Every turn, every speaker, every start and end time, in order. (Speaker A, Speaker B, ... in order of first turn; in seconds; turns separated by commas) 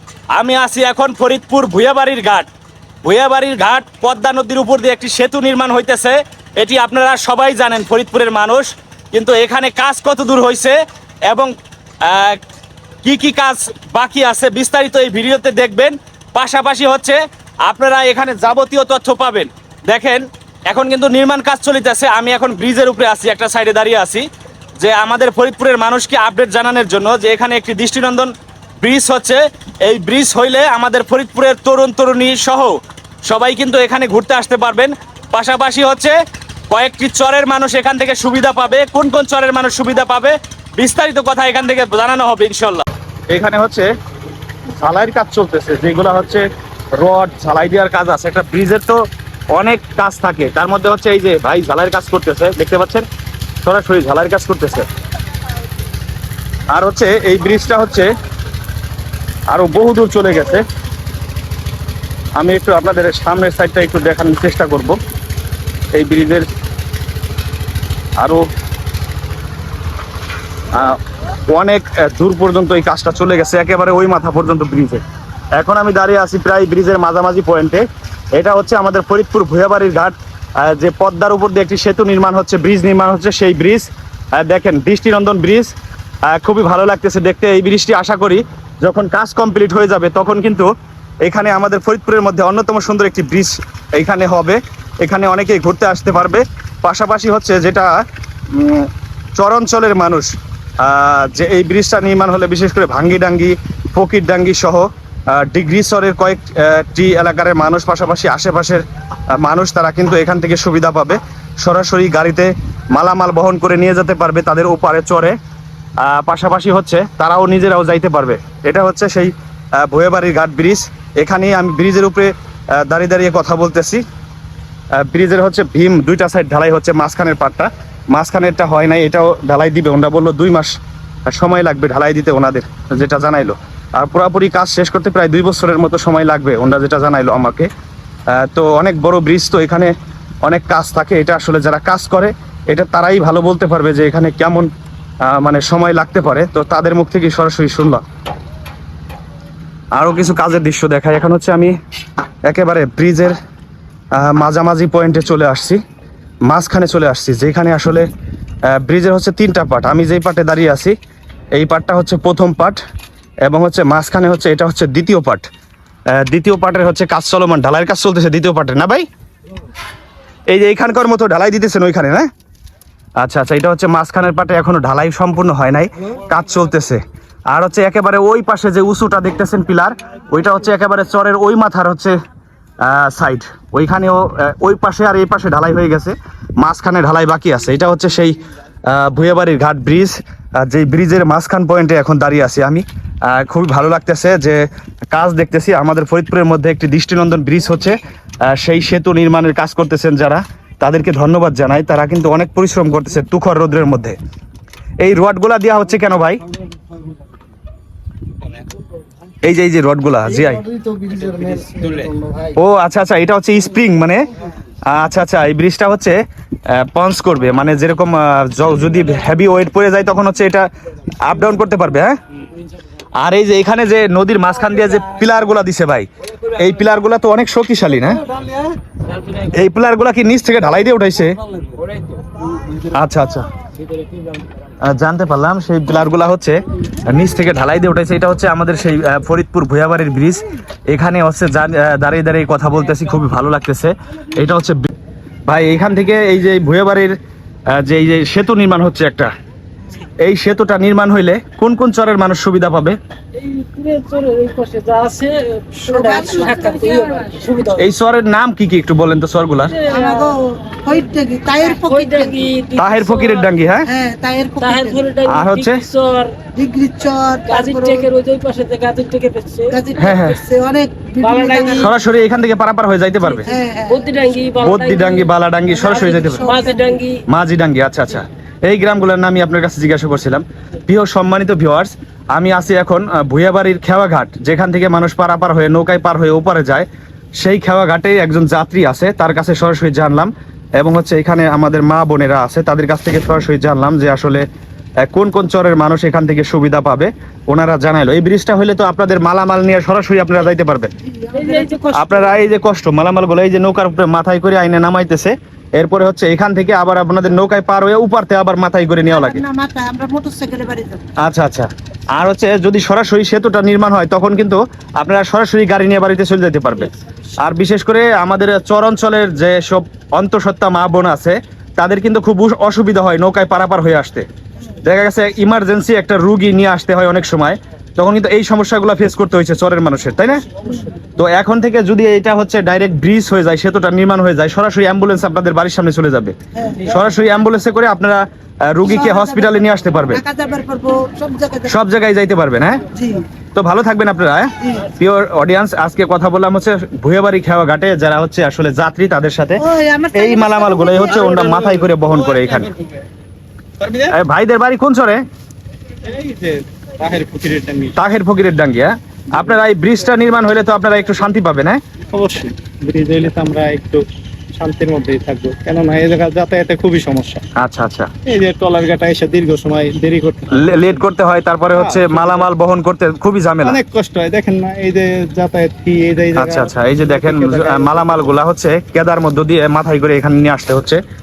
Speaker A: 0.3-2.5, Speaker A: 3.0-11.5, Speaker A: 12.0-12.4, Speaker A: 13.0-24.3, Speaker A: 24.8-36.2, Speaker A: 36.7-43.9, Speaker A: 44.8-46.5, Speaker A: 47.0-49.0, Speaker A: 49.5-53.1, Speaker A: 53.6-54.9, Speaker A: 56.7-58.1, Speaker A: 59.5-60.6, Speaker A: 62.4-65.0, Speaker A: 65.9-66.5, Speaker A: 68.2-68.5, Speaker A: 70.7-75.0, Speaker A: 75.6-85.7, Speaker A: 86.3-90.7, Speaker A: 91.2-115.4, Speaker A: 116.0-124.0, Speaker A: 125.0-137.7, Speaker A: 138.3-144.7, Speaker A: 145.2-148.0, Speaker A: 149.9-151.8, Speaker A: 152.4-153.4, Speaker A: 154.1-155.8, Speaker A: 156.5-158.1, Speaker A: 158.7-161.0, Speaker A: 161.6-162.8, Speaker A: 163.5-165.5, Speaker A: 166.1-169.1, Speaker A: 170.5-172.3, Speaker A: 173.2-182.2, Speaker A: 182.8-194.6, Speaker A: 195.1-204.2, Speaker A: 205.0-206.4, Speaker A: 209.4-210.7, Speaker A: 212.5-214.2, Speaker A: 214.9-216.2, Speaker A: 216.7-220.7, Speaker A: 221.2-222.2, Speaker A: 223.2-228.2, Speaker A: 229.5-231.3, Speaker A: 232.9-233.5, Speaker A: 234.8-244.9, Speaker A: 245.5-247.2, Speaker A: 247.7-249.3, Speaker A: 250.2-253.0, Speaker B: 253.4-257.8, Speaker C: 255.8-257.2, Speaker A: 257.8-259.8, Speaker B: 259.8-260.3, Speaker C: 259.9-262.4, Speaker B: 261.9-263.4, Speaker A: 262.8-263.9, Speaker C: 263.9-265.1, Speaker B: 264.6-266.3, Speaker A: 265.3-265.9, Speaker C: 266.6-268.1, Speaker B: 267.5-269.8, Speaker C: 269.7-271.9, Speaker A: 270.0-270.4, Speaker B: 271.2-271.8, Speaker A: 271.6-273.5, Speaker C: 273.4-274.1, Speaker B: 273.9-275.3, Speaker A: 274.6-276.5, Speaker C: 275.7-276.9, Speaker B: 276.0-277.2, Speaker A: 277.3-294.4, Speaker A: 295.1-300.9, Speaker C: 301.1-302.2, Speaker B: 301.4-301.8, Speaker A: 301.9-309.4, Speaker C: 309.1-311.1, Speaker A: 311.2-324.3, Speaker A: 324.8-330.4, Speaker A: 331.2-340.2, Speaker C: 336.6-336.9, Speaker C: 338.9-341.7, Speaker A: 341.7-342.8, Speaker C: 342.9-343.2, Speaker A: 343.6-349.6, Speaker C: 349.6-351.2, Speaker A: 350.1-352.7, Speaker D: 351.2-352.9, Speaker D: 353.8-354.1, Speaker A: 354.1-355.2, Speaker D: 356.0-357.9, Speaker A: 358.0-361.8, Speaker D: 362.1-367.4, Speaker A: 367.6-368.1, Speaker D: 368.2-371.0, Speaker A: 370.5-373.8, Speaker D: 371.7-372.5, Speaker D: 373.6-378.2, Speaker A: 376.4-381.0